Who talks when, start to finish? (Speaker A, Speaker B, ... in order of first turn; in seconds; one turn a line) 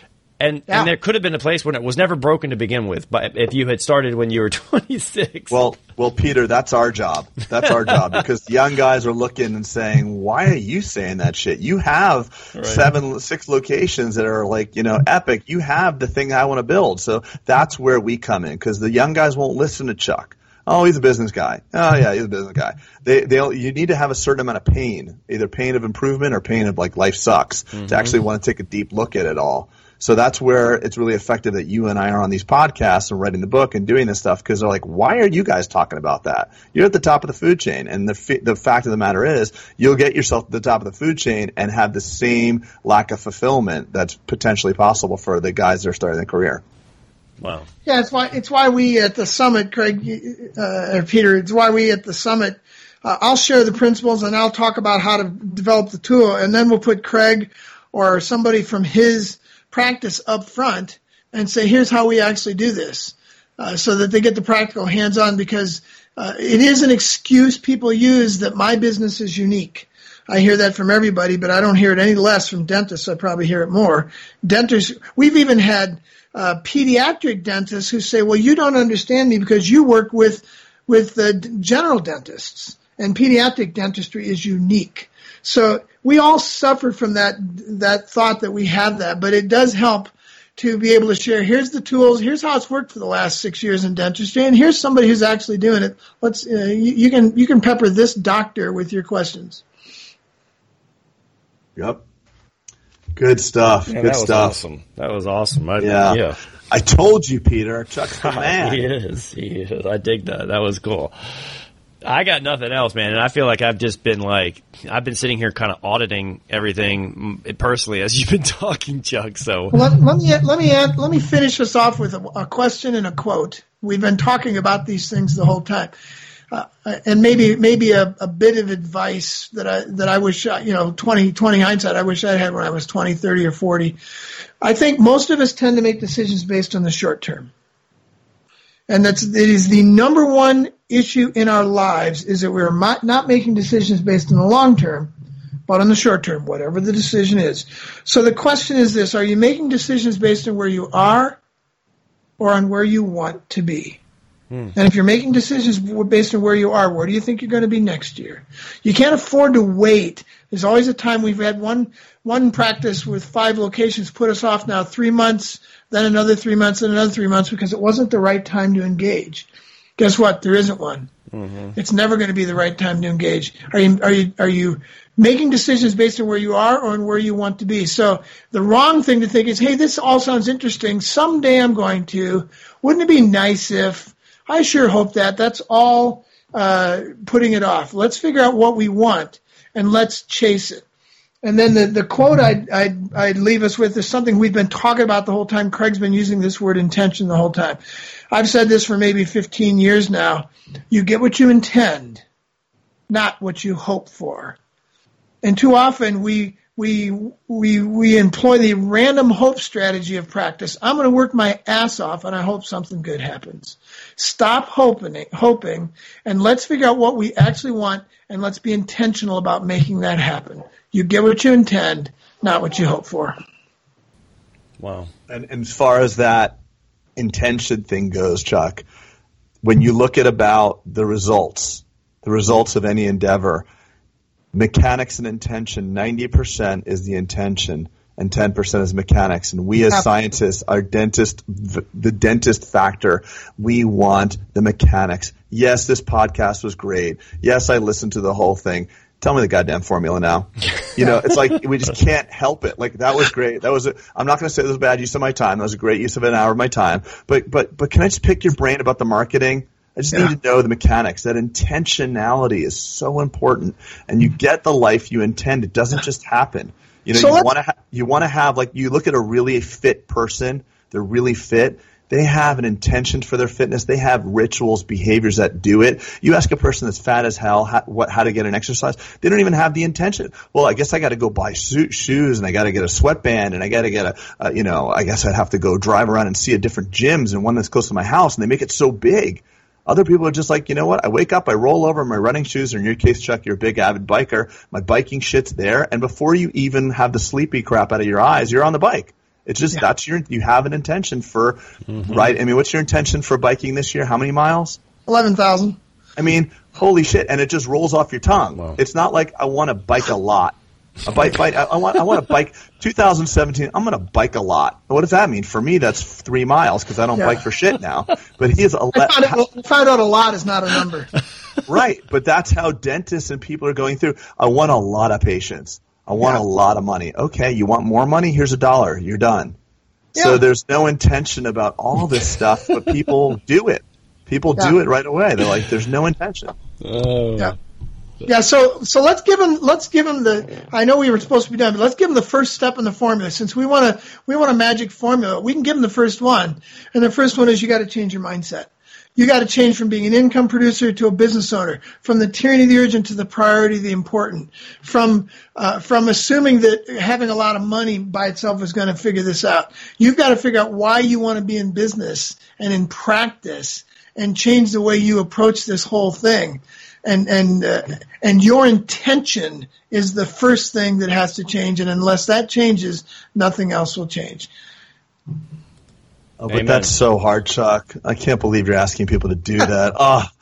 Speaker A: 0.4-5.6
Speaker B: 5.5-46.6
Speaker A: 12.6-12.8
Speaker A: 27.8-28.1
Speaker A: 47.4-47.7
Speaker C: 47.9-99.6
Speaker B: 101.8-102.0
Speaker B: 103.2-104.6
Speaker A: 103.9-106.4
Speaker B: 105.8-108.8
Speaker A: 108.2-111.1
Speaker A: 112.0-119.8
Speaker C: 119.7-125.9
Speaker C: 126.5-134.0
Speaker C: 134.6-137.5
Speaker C: 138.9-145.1
Speaker C: 145.7-151.4
Speaker C: 152.4-154.0
Speaker C: 154.8-171.1
Speaker A: 171.3-171.7
Speaker C: 171.7-190.8
Speaker C: 191.4-197.8
Speaker C: 198.3-202.2
Speaker C: 203.1-204.6
Speaker C: 205.4-223.3
Speaker A: 224.8-225.1
Speaker B: 225.3-226.6
Speaker B: 227.2-228.8
Speaker B: 229.6-233.7
Speaker B: 234.5-304.8
Speaker C: 267.1-267.5
Speaker C: 305.1-305.8
Speaker B: 306.2-319.4
Speaker C: 318.9-321.1
Speaker B: 321.7-329.6
Speaker C: 330.1-330.4
Speaker B: 330.1-336.5
Speaker A: 336.8-337.5
Speaker C: 338.2-374.5
Speaker B: 376.4-380.3
Speaker A: 376.5-376.9